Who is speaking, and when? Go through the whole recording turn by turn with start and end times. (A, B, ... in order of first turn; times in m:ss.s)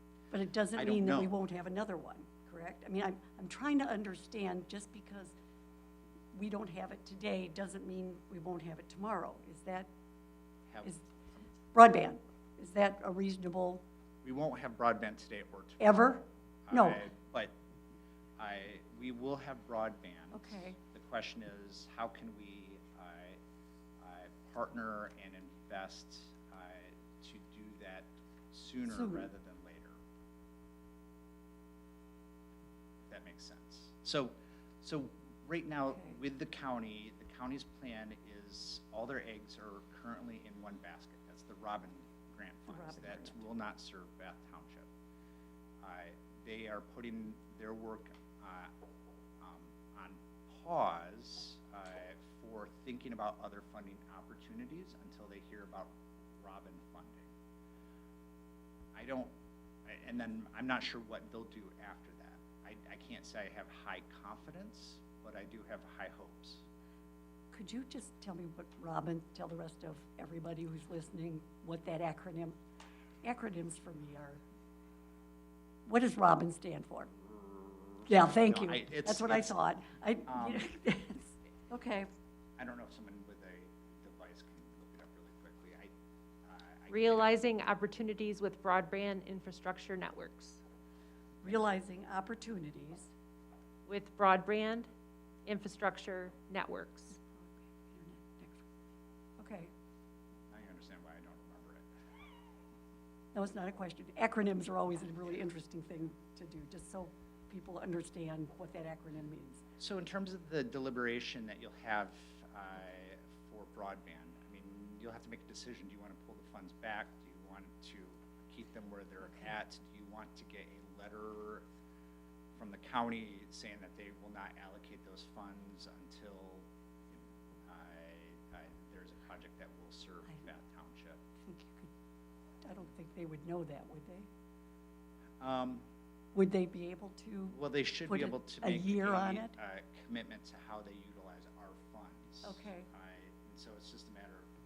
0:00.3-0:05.3 A
0:00.7-0:01.3 B
0:06.3-0:09.9 A
0:11.7-0:13.8 A
0:14.2-0:16.1 B
0:15.8-0:17.0 A
0:16.7-0:17.5 B
0:18.4-0:23.4 B
0:20.3-0:20.8 A
0:24.0-0:30.0 B
0:28.9-0:29.2 A
0:33.1-0:44.9 B
0:35.9-0:36.2 A
0:42.7-0:43.4 A
0:45.8-0:48.7 B
0:49.4-0:57.3 B
0:58.9-0:59.3 B
0:59.8-1:06.6 B
1:07.5-1:12.6 A
1:13.2-1:14.4 A
1:15.8-1:17.1 A
1:17.3-1:19.5 B
1:18.1-1:22.1 A
1:20.3-1:20.7 B
1:22.6-1:25.9 B
1:26.4-1:27.4 B
1:26.9-1:30.6 C
1:31.4-1:33.1 A
1:33.8-1:34.9 C
1:35.4-1:37.2 C
1:37.1-1:38.6 A
1:39.4-1:39.7 A
1:40.5-1:41.9 B
1:43.3-1:49.6 A
1:49.8-2:01.6 B
2:02.6-2:11.2 B
2:11.4-2:11.9 A
2:12.6-2:14.3 A
2:15.4-2:15.8 B
2:16.3-2:19.5 A
2:17.5-2:24.5 B
2:22.4-2:22.9 A